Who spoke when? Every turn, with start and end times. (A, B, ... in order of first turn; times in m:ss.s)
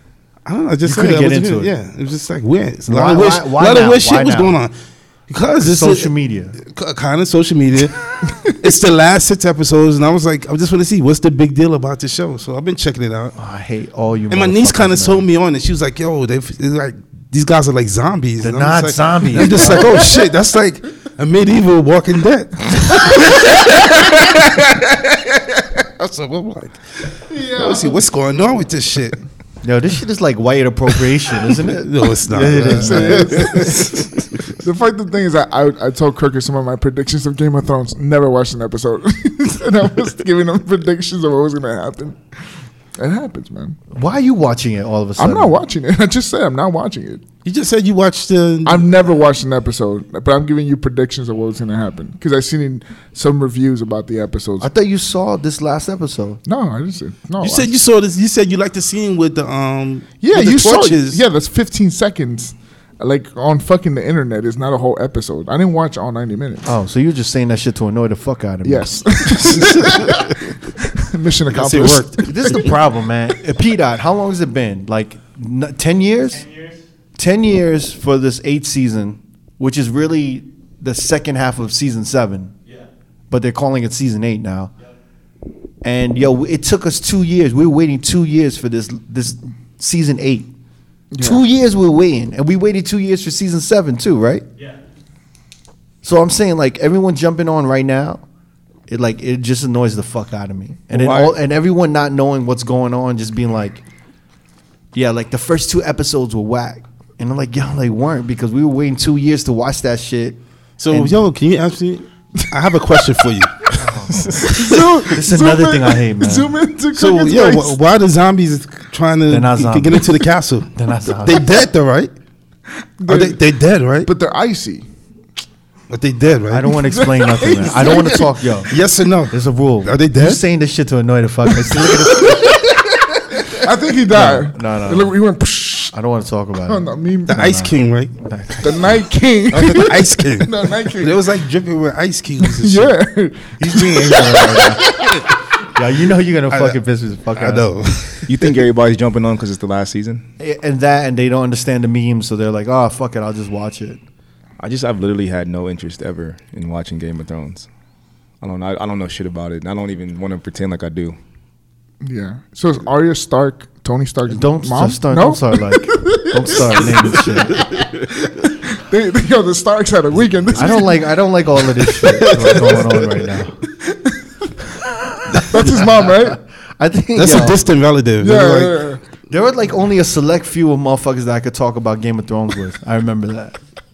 0:00.4-0:04.7 A
0:00.8-0:01.7 B
0:02.8-0:04.6 B
0:05.3-0:13.4 A
0:05.6-0:06.6 B
0:13.4-0:15.2 B
0:14.3-0:24.8 A
0:18.4-0:20.0 B
0:26.0-0:29.2 A
0:27.3-0:27.8 C
0:29.6-0:33.6 B
0:31.4-0:34.0 A
0:32.4-0:34.0 C
0:34.6-0:43.8 C
0:43.9-0:45.6 B
0:45.2-0:47.2 C
0:47.4-0:48.9 A
0:48.6-0:54.7 C
0:54.6-0:56.4 B
0:56.4-0:57.7 C
0:57.4-1:01.2 A
1:00.2-1:06.7 C
1:06.6-1:09.3 B
1:08.6-1:10.3 C
1:11.0-1:12.7 C
1:11.5-1:12.6 A
1:12.2-1:22.5 B
1:23.3-1:24.7 B
1:25.8-1:30.5 B
1:31.1-1:31.4 C
1:31.2-1:34.5 B
1:36.0-1:38.2 B
1:38.9-1:43.8 B
1:40.9-1:41.3 D
1:44.9-1:50.4 B
1:50.8-1:53.7 A
1:50.9-1:51.2 B
1:53.8-1:56.5 B
1:54.3-1:57.8 C
1:56.9-2:02.1 A
1:59.3-2:00.2 B
2:00.7-2:01.6 B
2:03.0-2:03.4 C
2:03.1-2:04.1 A
2:04.0-2:04.8 C
2:05.9-2:06.8 A
2:06.5-2:13.4 B
2:06.9-2:08.3 C
2:08.7-2:10.4 A
2:13.4-2:16.0 C
2:14.1-2:15.1 B
2:15.9-2:18.9 B
2:16.6-2:17.5 C
2:17.3-2:18.1 A
2:18.6-2:21.2 C
2:19.5-2:19.9 B
2:19.5-2:23.0 A
2:22.4-2:25.2 C
2:23.6-2:27.7 B
2:25.0-2:25.2 A
2:26.5-2:26.8 A
2:27.3-2:28.5 A
2:28.2-2:30.2 D
2:30.4-2:34.0 B
2:34.6-2:37.7 D
2:38.4-2:41.2 D
2:42.0-2:51.0 C
2:44.3-2:47.7 B
2:50.5-2:53.6 B
2:52.2-2:52.9 A
2:55.0-2:57.6 B
2:55.4-2:56.4 C
2:57.2-2:58.8 A
2:58.2-2:59.0 C
2:59.3-3:03.6 B